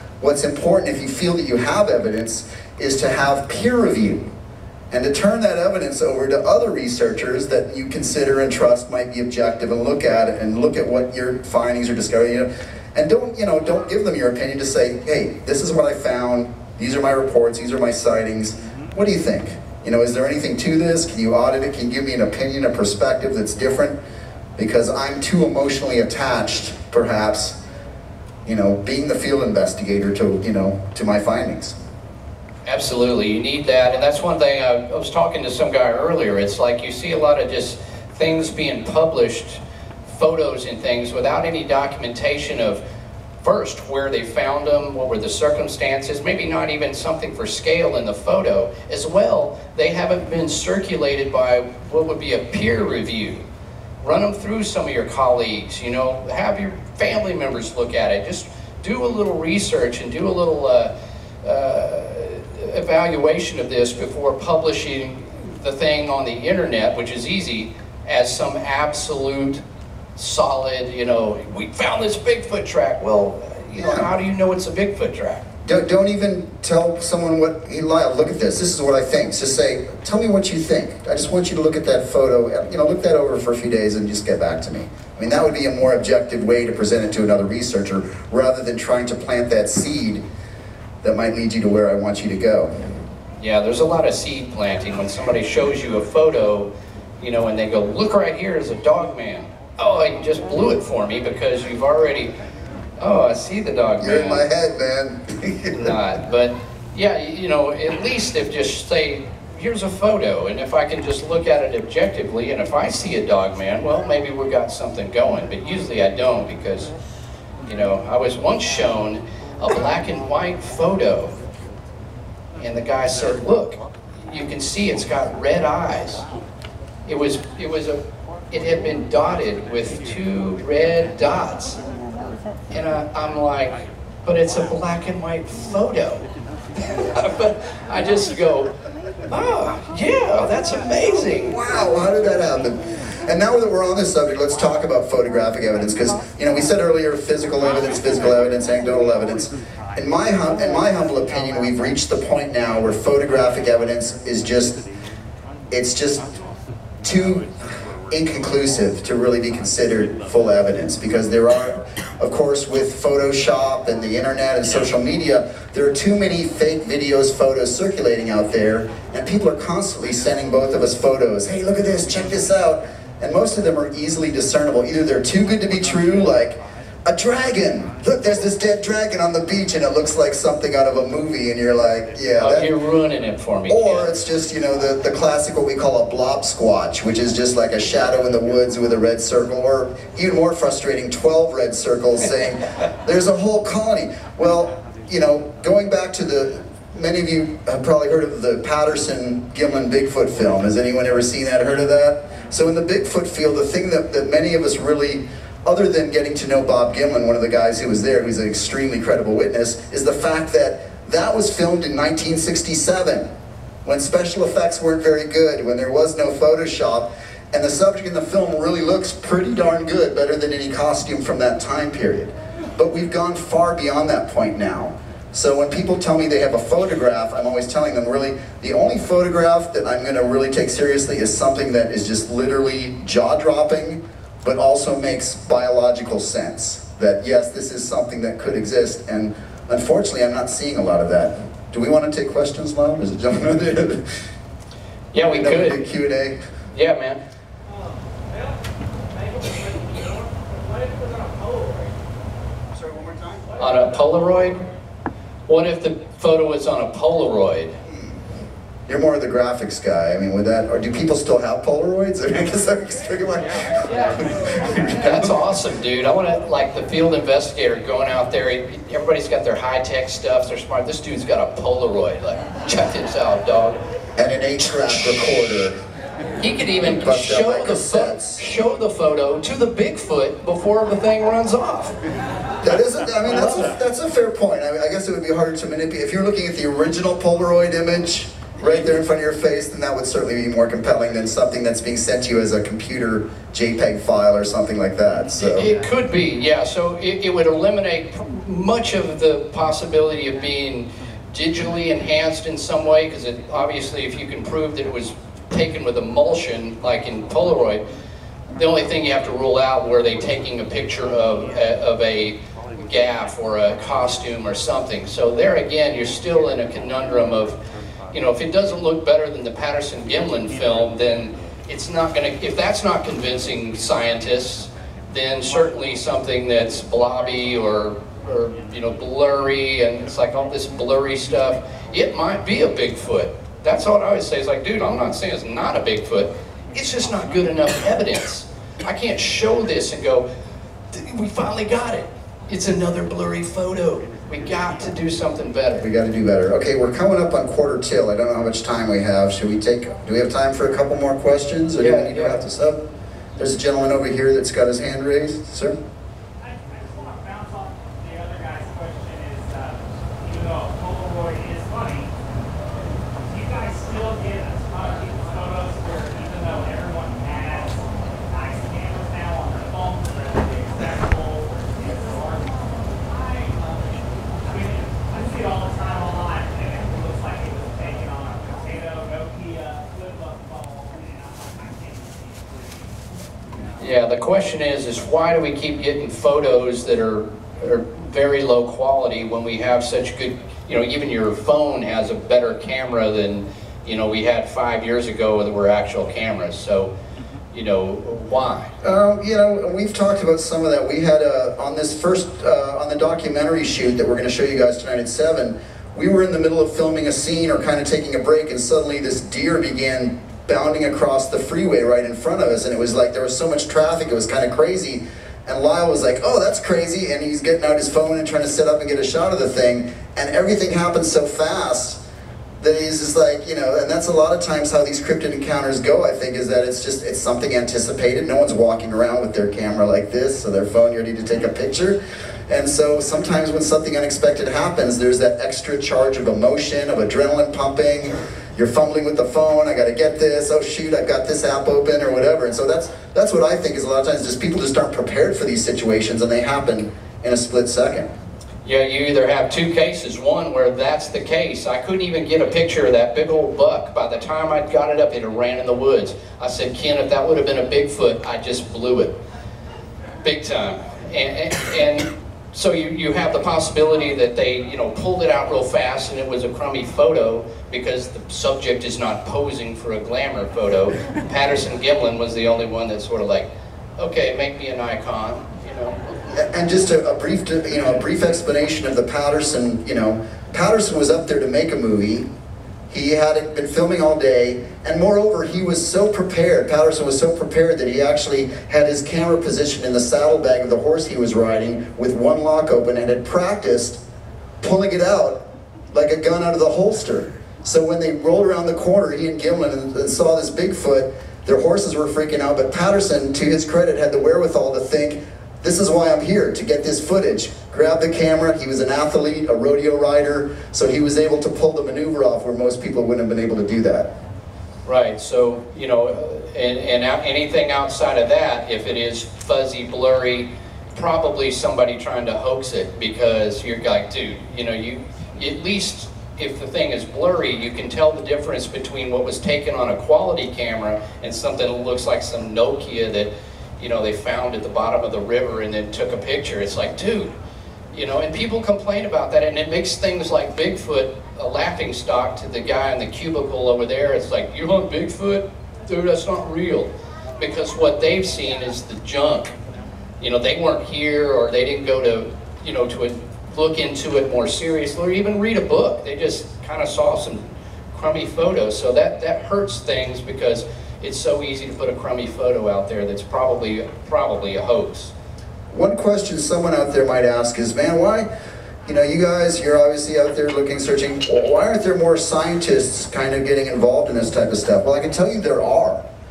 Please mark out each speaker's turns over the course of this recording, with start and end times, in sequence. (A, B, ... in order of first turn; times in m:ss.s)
0:00.2-0:04.3 A
0:04.9-0:24.0 A
0:24.6-0:27.6 A
0:28.4-0:31.8 A
0:32.6-0:42.8 B
0:43.4-0:53.4 B
0:54.0-1:09.6 B
1:10.2-1:15.5 B
1:13.8-1:14.1 A
1:15.6-1:30.2 A
1:31.0-1:32.7 A
1:33.4-1:42.3 B
1:43.0-1:44.4 B
1:44.0-1:45.9 A
1:45.7-1:56.9 B
1:57.6-2:01.4 B
2:02.6-2:06.2 B
2:07.0-2:11.8 B
2:12.7-2:16.2 B
2:16.8-2:18.7 B
2:19.3-2:21.6 B
2:21.4-2:34.8 A
2:35.7-2:36.3 A
2:37.0-3:02.7 A
3:02.4-3:04.1 B
3:03.7-3:33.3 A
3:33.8-4:04.1 A
4:05.1-4:05.8 B
4:05.2-4:06.4 A
4:06.7-4:07.2 B
4:07.7-4:08.5 C
4:09.1-4:11.9 C
4:12.8-4:13.4 A
4:13.6-4:14.6 B
4:15.5-4:17.8 B
4:18.9-4:25.3 A
4:24.9-4:33.8 B
4:34.2-4:35.8 A
4:36.4-4:42.0 B
4:36.8-4:38.4 A
4:42.6-4:55.7 A
4:55.4-5:07.8 B
5:08.5-5:17.6 B
5:18.1-5:40.3 B
5:40.9-5:45.8 B
5:45.8-5:52.8 A
5:51.8-5:52.4 B
5:53.4-5:55.8 A
5:56.4-6:02.1 C
6:03.2-6:22.9 C
6:23.8-6:36.9 B
6:37.5-6:38.7 B
6:38.8-7:02.0 A
7:02.6-7:28.1 A
7:28.6-7:39.1 B
7:40.2-7:56.0 B
7:56.4-8:02.3 A
8:02.9-8:14.0 A
8:14.6-8:34.1 A
8:34.8-8:57.3 B
8:57.9-9:09.5 B
9:10.2-9:25.1 B
9:25.7-9:28.3 A
9:28.8-9:36.0 A